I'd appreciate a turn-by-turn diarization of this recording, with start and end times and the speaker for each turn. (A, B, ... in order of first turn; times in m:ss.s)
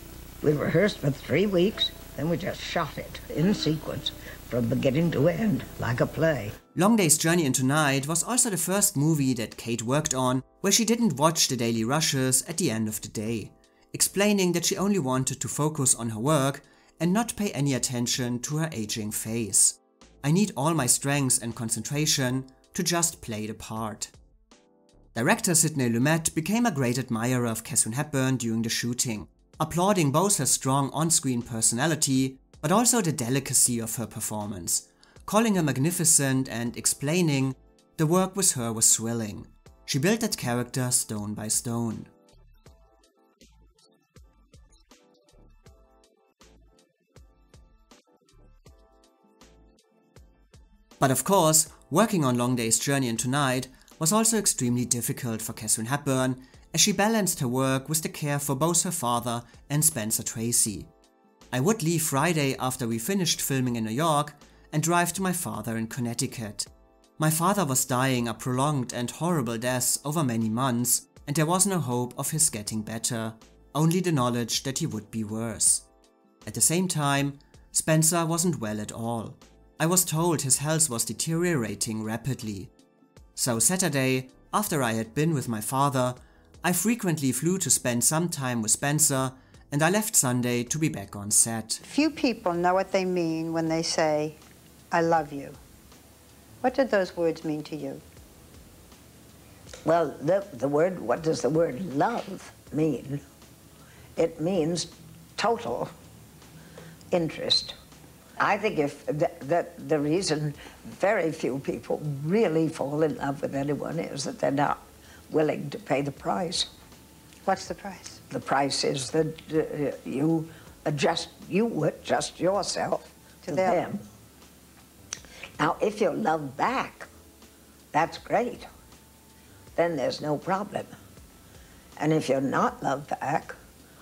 0:00.4-0:06.6 A
0:06.7-0:24.1 B
0:25.1-0:42.1 B
0:51.0-1:00.9 B
1:01.5-1:06.7 B
1:07.2-1:15.8 B
1:16.4-1:22.7 B
1:23.4-1:31.8 B
1:31.8-1:34.4 C
1:34.9-1:35.6 C
1:36.6-1:38.0 C
1:39.8-1:43.2 A
1:44.2-1:45.9 A
1:47.1-1:47.8 A
1:48.4-1:56.7 A
1:57.4-1:58.2 C
1:58.3-2:04.0 A
2:03.4-2:03.8 C
2:05.6-2:07.1 A
2:07.9-2:08.7 A
2:09.8-2:10.9 A
2:12.0-2:13.6 A